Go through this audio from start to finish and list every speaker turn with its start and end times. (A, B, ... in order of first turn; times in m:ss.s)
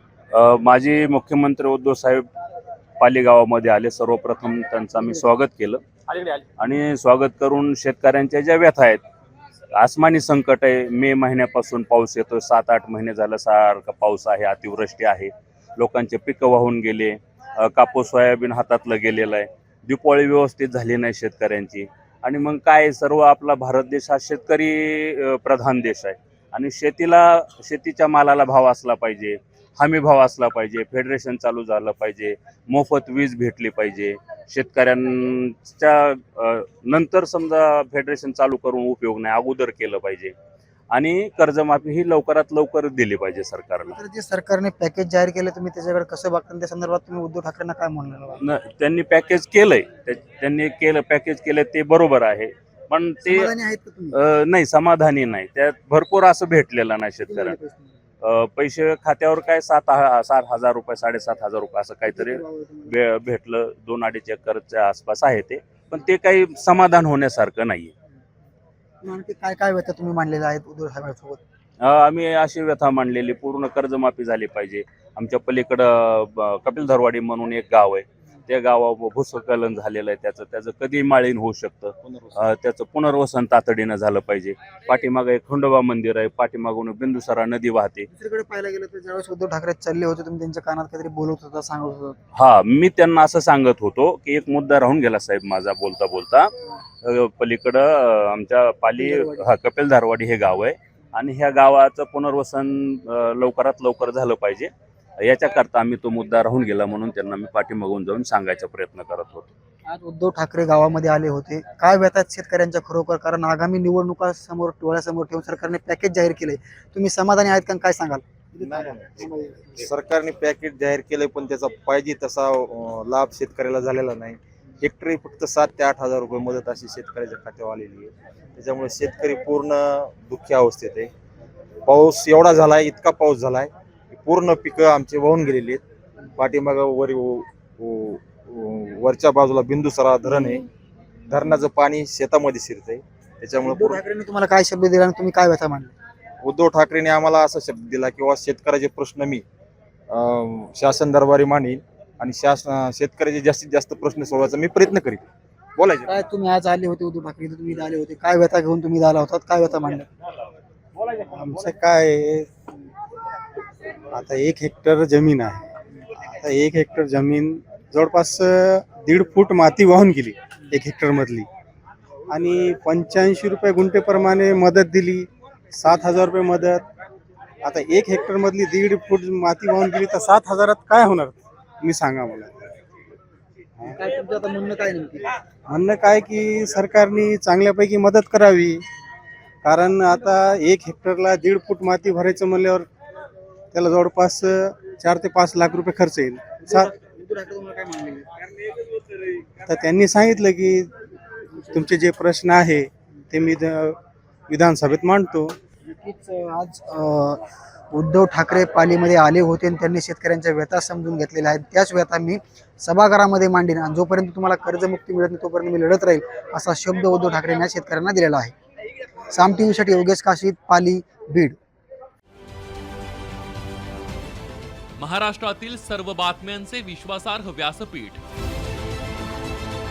0:00.3-0:02.2 A
0:03.0-0:09.0 A
0:09.8-0:40.3 A
0:40.9-0:44.0 A
0:43.9-0:48.4 B
0:48.4-0:53.5 A
0:53.2-0:54.2 B
0:54.1-0:57.6 A
0:57.2-0:57.9 B
0:58.2-1:07.9 A
1:02.1-1:02.9 B
1:09.0-1:11.4 B
1:11.8-1:28.1 A
1:22.0-1:22.4 C
1:28.1-1:32.2 B
1:32.3-1:44.7 A
1:39.0-1:39.5 B
1:45.2-1:49.5 A
1:49.9-1:59.8 B
1:58.6-1:59.2 C
1:59.8-2:11.1 C
2:11.8-2:15.8 C
2:16.4-2:20.6 C
2:21.3-2:24.0 C
2:23.6-2:25.9 B
2:26.4-2:29.4 C
2:30.1-2:36.1 C
2:36.1-2:40.1 B
2:41.2-2:42.5 D
2:44.1-2:45.7 D
2:46.4-2:51.5 D
2:52.3-2:56.8 D
2:57.6-3:02.7 D
3:03.8-3:05.3 B
3:05.7-3:08.8 D
3:09.6-3:12.9 D
3:13.7-3:16.9 D
3:16.6-3:18.3 B
3:19.6-3:20.9 D
3:21.7-3:24.0 D
3:24.5-3:25.6 D
3:25.9-3:38.5 B
3:39.3-3:41.6 B
3:45.0-3:48.2 E